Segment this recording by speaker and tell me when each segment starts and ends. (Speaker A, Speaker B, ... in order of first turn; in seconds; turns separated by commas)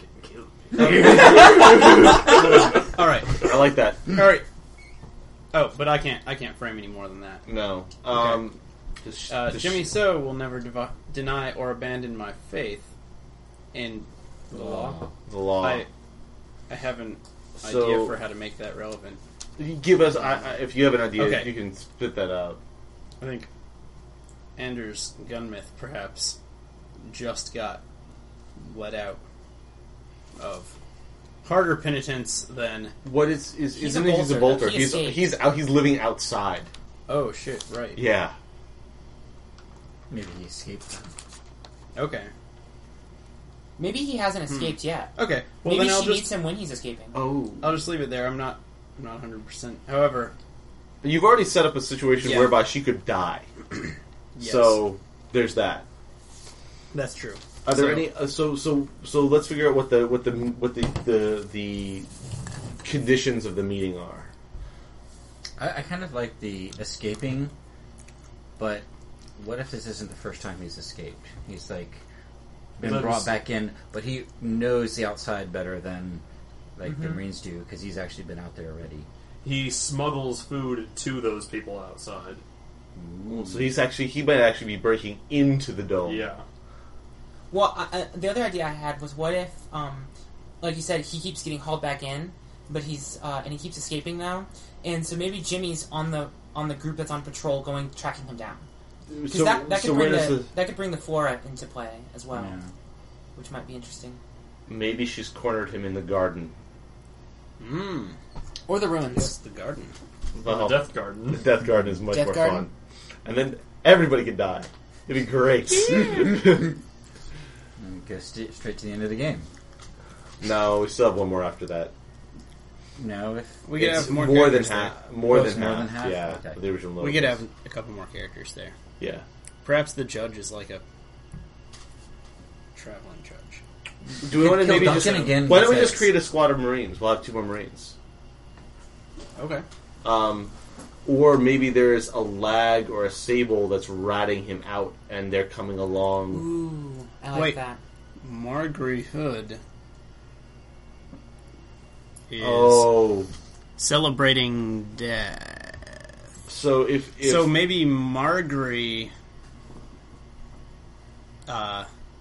Speaker A: 0.2-3.5, Speaker B: 0.8-2.2, Speaker B: 3.4-4.1, Speaker A: 4.1-4.5, Speaker A: 5.5-7.5, Speaker B: 7.5-9.9, Speaker A: 8.1-8.4, Speaker A: 9.3-12.9, Speaker A: 13.7-15.0, Speaker C: 14.5-15.1, Speaker B: 15.3-15.9, Speaker A: 15.6-15.9, Speaker A: 16.7-19.2, Speaker B: 17.6-18.2, Speaker B: 19.6-22.6, Speaker A: 21.1-21.5, Speaker A: 23.2-23.5, Speaker A: 24.6-26.4, Speaker A: 27.0-27.8, Speaker A: 28.6-29.2, Speaker A: 30.4-30.7, Speaker A: 31.4-33.0, Speaker B: 33.0-36.7, Speaker D: 33.8-35.2, Speaker A: 37.1-38.0, Speaker B: 38.0-38.3, Speaker C: 40.1-41.1, Speaker A: 42.0-42.3, Speaker D: 43.8-47.2, Speaker A: 44.5-46.4, Speaker B: 47.1-47.9, Speaker A: 47.6-50.3, Speaker B: 51.0-53.5, Speaker A: 52.2-52.6, Speaker A: 54.4-54.9, Speaker B: 54.4-55.9, Speaker A: 56.9-58.1, Speaker B: 57.6-62.1, Speaker B: 62.8-64.3, Speaker C: 65.6-67.5, Speaker C: 68.6-68.8, Speaker C: 69.4-72.0, Speaker C: 72.8-76.2, Speaker E: 72.8-73.4, Speaker C: 76.8-79.1, Speaker D: 76.8-77.2, Speaker E: 79.4-82.4, Speaker C: 83.0-83.7, Speaker B: 83.3-86.3, Speaker E: 86.0-86.5, Speaker D: 87.5-90.1, Speaker D: 90.6-98.7, Speaker B: 99.1-100.5, Speaker D: 99.3-102.6, Speaker C: 102.3-102.7, Speaker D: 103.4-104.2, Speaker B: 104.7-106.5, Speaker A: 107.6-108.2, Speaker D: 108.7-109.3, Speaker A: 109.1-110.0, Speaker B: 110.3-112.7, Speaker E: 110.4-111.5, Speaker D: 112.1-112.7, Speaker B: 113.2-116.7, Speaker C: 117.8-119.5, Speaker B: 120.4-121.9, Speaker C: 123.0-123.6, Speaker A: 123.7-125.0, Speaker B: 123.7-127.4, Speaker C: 125.2-126.6, Speaker A: 127.0-128.8, Speaker B: 129.0-129.2, Speaker A: 129.6-130.8, Speaker A: 132.7-133.6, Speaker B: 134.2-137.9, Speaker C: 134.3-136.1, Speaker A: 139.4-139.7, Speaker B: 140.0-140.5, Speaker B: 141.1-146.5, Speaker D: 146.3-147.8, Speaker A: 147.3-147.6, Speaker A: 148.2-149.6, Speaker A: 152.3-153.0, Speaker B: 152.4-153.3, Speaker A: 153.8-155.9, Speaker B: 156.5-157.7, Speaker A: 157.2-159.1, Speaker A: 161.5-161.9